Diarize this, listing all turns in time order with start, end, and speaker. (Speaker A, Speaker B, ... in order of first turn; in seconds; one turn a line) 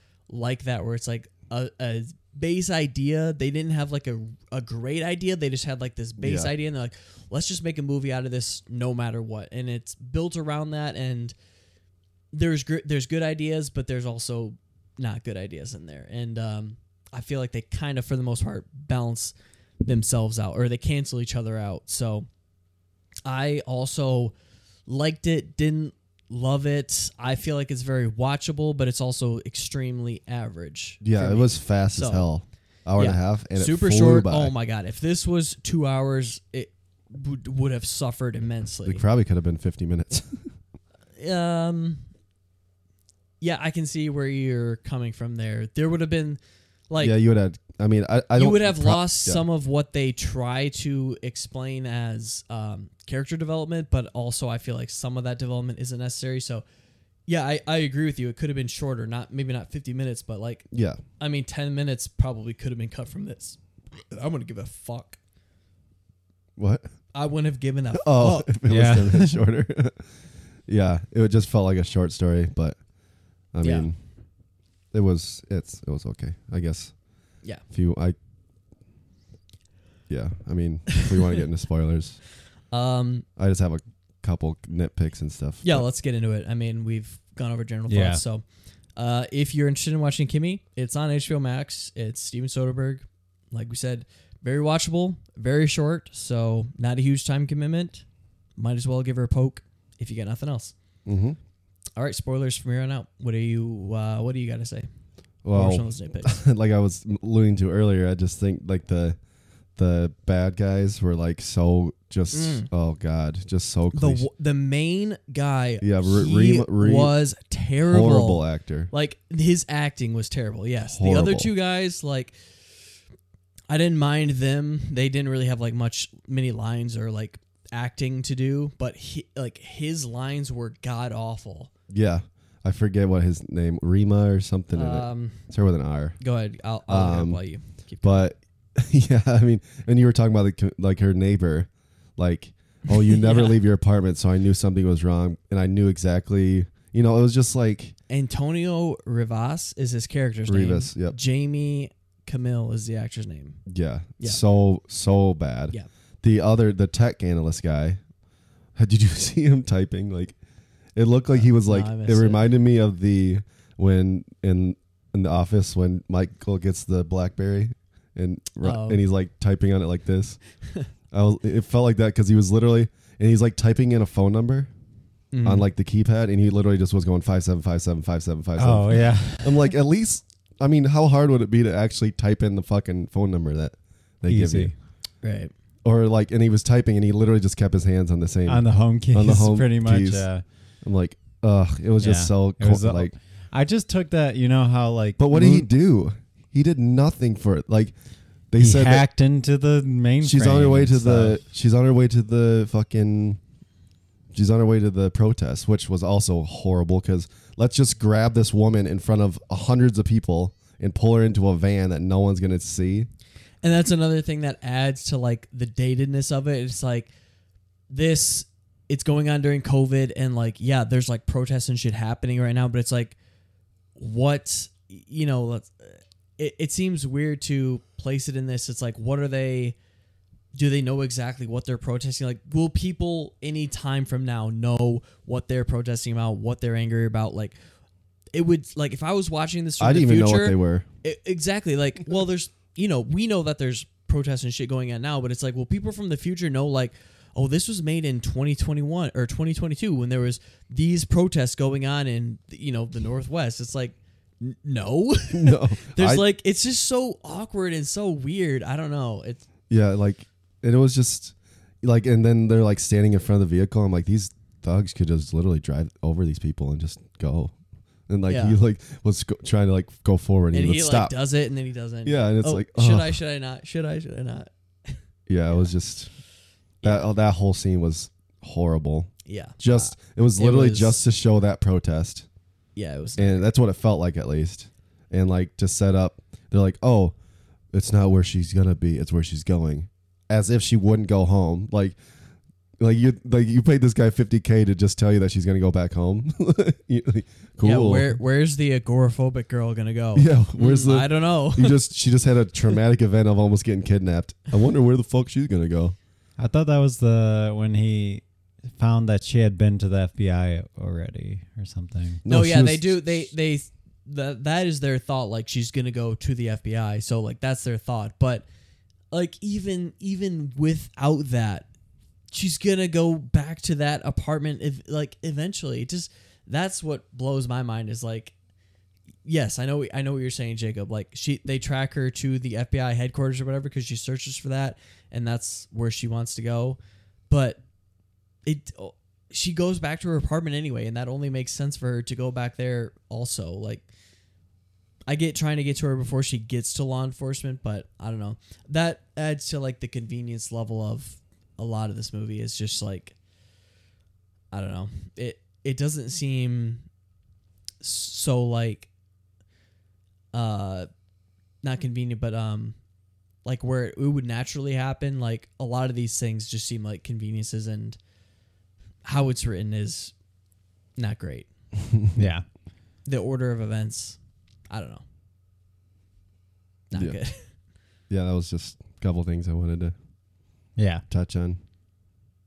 Speaker A: 0.3-11.3
Speaker B: 6.2-6.5
Speaker A: 12.3-22.3
Speaker A: 23.2-24.3
Speaker A: 24.9-32.3
Speaker B: 31.0-34.5
Speaker A: 33.0-39.0
Speaker B: 38.8-40.5
Speaker A: 41.2-42.0
Speaker A: 43.4-47.2
Speaker B: 47.0-49.4
Speaker A: 48.3-56.6
Speaker A: 57.3-60.6
Speaker B: 60.7-61.0
Speaker A: 61.2-63.6
Speaker A: 64.1-65.2
Speaker B: 66.6-66.9
Speaker A: 67.1-68.6
Speaker B: 67.9-70.0
Speaker C: 68.7-69.4
Speaker B: 70.7-72.8
Speaker B: 73.5-74.0
Speaker A: 73.6-73.9
Speaker B: 74.9-76.9
Speaker B: 77.7-78.2
Speaker B: 80.1-82.2
Speaker A: 82.7-83.2
Speaker B: 83.4-85.8
Speaker A: 85.6-88.4
Speaker C: 87.9-88.2
Speaker A: 89.0-98.0
Speaker A: 98.6-100.7
Speaker B: 101.0-101.4
Speaker A: 102.0-104.9
Speaker B: 105.4-109.2
Speaker A: 105.5-106.4
Speaker B: 109.8-114.2
Speaker A: 112.3-112.7
Speaker A: 113.9-122.3
Speaker B: 115.8-117.1
Speaker B: 117.9-118.9
Speaker B: 120.9-121.5
Speaker A: 123.7-131.7
Speaker B: 131.9-136.2
Speaker A: 134.7-135.4
Speaker A: 136.2-138.3
Speaker B: 136.9-137.4
Speaker B: 138.0-147.9
Speaker A: 143.1-143.6
Speaker A: 148.1-153.6
Speaker B: 150.5-151.2
Speaker B: 153.7-158.0
Speaker B: 158.7-160.3
Speaker B: 160.9-170.4
Speaker A: 161.3-162.4
Speaker A: 168.6-169.0
Speaker B: 171.1-174.7
Speaker A: 175.3-175.7
Speaker B: 175.4-184.7
Speaker C: 178.6-179.7
Speaker C: 184.3-184.7
Speaker A: 185.2-185.5
Speaker B: 185.8-190.2
Speaker C: 188.5-190.4
Speaker B: 190.8-193.1
Speaker C: 192.0-195.7
Speaker B: 195.2-197.9
Speaker B: 198.5-199.1
Speaker C: 198.6-201.4
Speaker B: 200.2-203.4
Speaker B: 204.3-213.1
Speaker A: 213.6-217.1
Speaker A: 217.9-223.1
Speaker A: 223.9-229.8
Speaker A: 230.5-237.6
Speaker A: 238.3-259.4
Speaker B: 239.8-240.9
Speaker B: 255.3-256.2
Speaker B: 259.7-267.5
Speaker B: 268.1-271.1
Speaker A: 268.3-268.6
Speaker A: 270.5-275.0
Speaker B: 272.0-273.2
Speaker B: 275.3-276.1
Speaker A: 276.8-277.1
Speaker B: 276.8-282.2
Speaker A: 279.2-281.0
Speaker A: 282.8-283.5
Speaker B: 283.2-287.1
Speaker B: 287.7-292.0
Speaker B: 292.8-298.2
Speaker A: 297.6-301.8
Speaker B: 300.1-305.9
Speaker C: 306.4-308.2
Speaker C: 308.8-312.2
Speaker B: 312.2-313.3
Speaker A: 312.3-318.4
Speaker A: 319.1-321.7
Speaker A: 322.3-328.3
Speaker A: 329.2-336.8
Speaker A: 337.3-337.6
Speaker A: 338.4-343.9
Speaker A: 345.1-353.1
Speaker A: 354.5-356.8
Speaker A: 357.8-358.9
Speaker A: 360.3-360.9
Speaker A: 361.6-362.8
Speaker A: 363.4-368.0
Speaker A: 369.0-370.1
Speaker A: 371.0-371.5
Speaker B: 371.8-372.1
Speaker C: 372.1-372.4
Speaker A: 373.1-374.2
Speaker A: 374.7-375.0
Speaker B: 376.9-377.2
Speaker A: 376.9-377.4
Speaker B: 378.1-379.9
Speaker C: 380.8-381.0
Speaker B: 381.1-381.6